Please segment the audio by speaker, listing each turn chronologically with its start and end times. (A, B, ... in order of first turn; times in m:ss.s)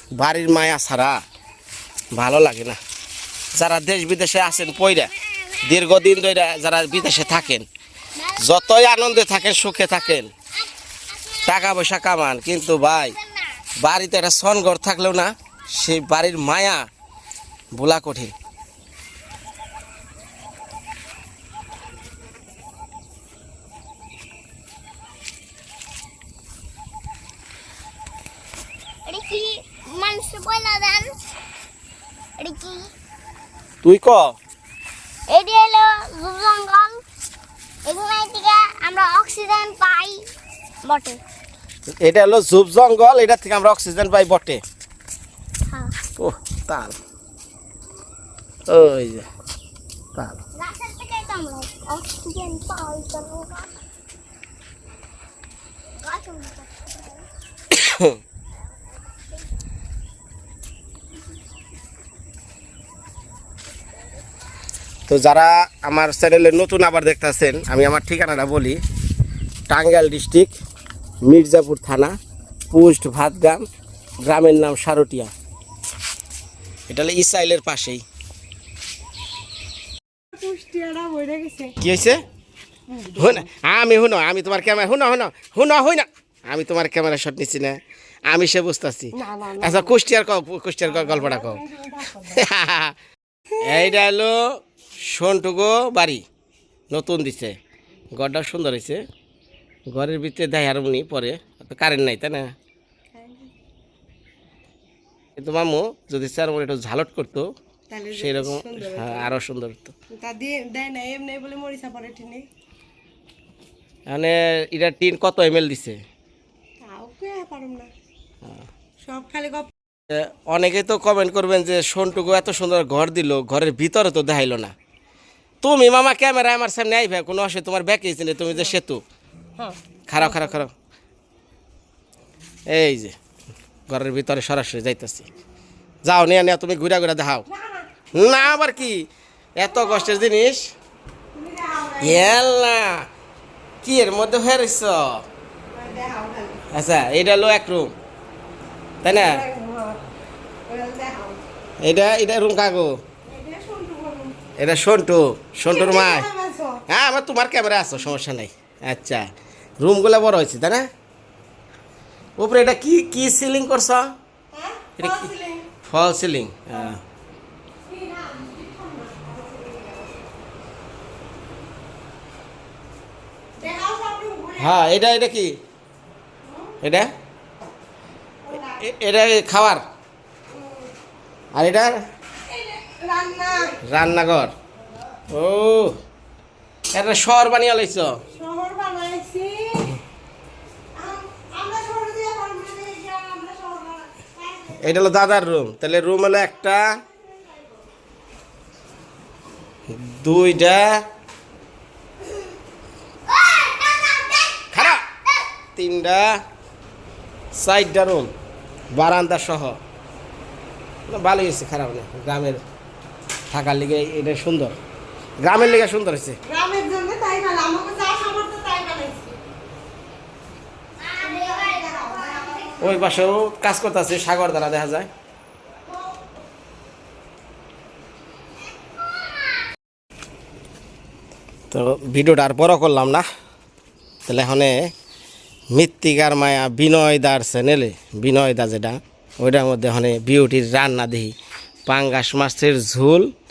0:00.2-0:01.2 A
0:02.1-0:02.8 A
0:03.6-0:05.1 A
0:04.4-0:06.3 B
0:05.6-0:07.7 A
0:06.9-0:07.5 B
0:08.2-0:13.6 B
0:08.4-0:10.3 A
0:11.5-0:13.2 A
0:13.8-0:16.9 A
0:17.8-0:18.4 A
0:29.1-0:31.2 B
0:32.4-0:32.9 B
0:33.8-0:34.4 A
0:35.3-0:37.0 B
0:37.9-0:40.2 B
0:40.9-0:41.2 B
0:42.0-0:44.6 A
0:45.7-0:46.0 B
0:46.2-0:47.0 A
0:48.7-0:49.3 A
0:50.6-0:53.7 B
0:56.0-0:57.3 B
0:57.7-0:58.2 A
1:05.1-1:08.8 A
1:09.7-1:10.6 A
1:11.2-1:12.2 A
1:12.7-1:13.7 A
1:14.3-1:15.3 A
1:16.9-1:18.0 A
1:20.3-1:21.8 C
1:21.8-1:22.2 A
1:22.9-1:23.4 C
1:23.2-1:31.6 A
1:29.2-1:30.0 C
1:30.8-1:32.4 C
1:32.3-1:33.0 A
1:33.6-1:34.6 A
1:35.1-1:36.2 A
1:36.9-1:37.6 A
1:38.2-1:39.0 A
1:39.9-1:42.5 A
1:43.1-1:43.5 C
1:45.4-1:47.5 A
1:47.9-1:49.3 C
1:48.1-1:49.9 A
1:50.1-1:52.4 C
1:54.1-1:56.0 A
1:56.8-1:57.9 C
1:59.0-1:59.7 C
2:00.1-2:04.7 A
2:05.6-2:09.0 A
2:10.1-2:10.7 A
2:12.7-2:13.2 A
2:13.9-2:15.3 A
2:16.0-2:17.4 A
2:17.5-2:18.2 C
2:18.1-2:20.7 A
2:19.7-2:20.0 C
2:21.3-2:22.4 C
2:22.0-2:23.1 A
2:23.8-2:25.2 A
2:25.7-2:26.6 C
2:26.7-2:28.0 A
2:29.0-2:29.4 A
2:29.0-2:30.0 C
2:30.7-2:31.4 C
2:31.8-2:33.0 A
2:33.3-2:34.4 C
2:34.6-2:36.3 A
2:35.6-2:36.8 C
2:36.9-2:39.3 A
2:39.8-2:40.9 A
2:42.4-2:44.1 A
2:44.5-2:45.7 C
2:45.0-2:45.3 A
2:45.8-2:47.0 A
2:47.9-2:50.3 C
2:53.6-2:54.8 C
2:54.6-2:55.6 A
2:56.4-2:56.7 C
2:56.8-2:57.1 A
2:58.5-2:58.8 C
2:58.8-2:59.8 A
3:00.5-3:00.9 C
3:01.5-3:02.0 A
3:02.5-3:03.8 C
3:03.8-3:04.5 A
3:05.3-3:06.0 A
3:06.9-3:08.2 A
3:08.3-3:09.9 C
3:11.0-3:15.0 C
3:14.8-3:17.0 A
3:17.0-3:17.8 C
3:19.9-3:21.0 A
3:23.3-3:24.8 B
3:24.7-3:25.0 A
3:25.8-3:26.4 A
3:27.6-3:28.3 A
3:28.9-3:29.8 A
3:31.1-3:32.6 A
3:33.5-3:34.8 A
3:35.4-3:36.4 A
3:36.5-3:39.4 C
3:41.0-3:43.0 B
3:41.6-3:42.9 C
3:42.8-3:45.1 A
3:51.7-3:53.3 A
3:54.3-3:54.9 A
3:55.7-4:01.3 A
4:01.9-4:03.3 A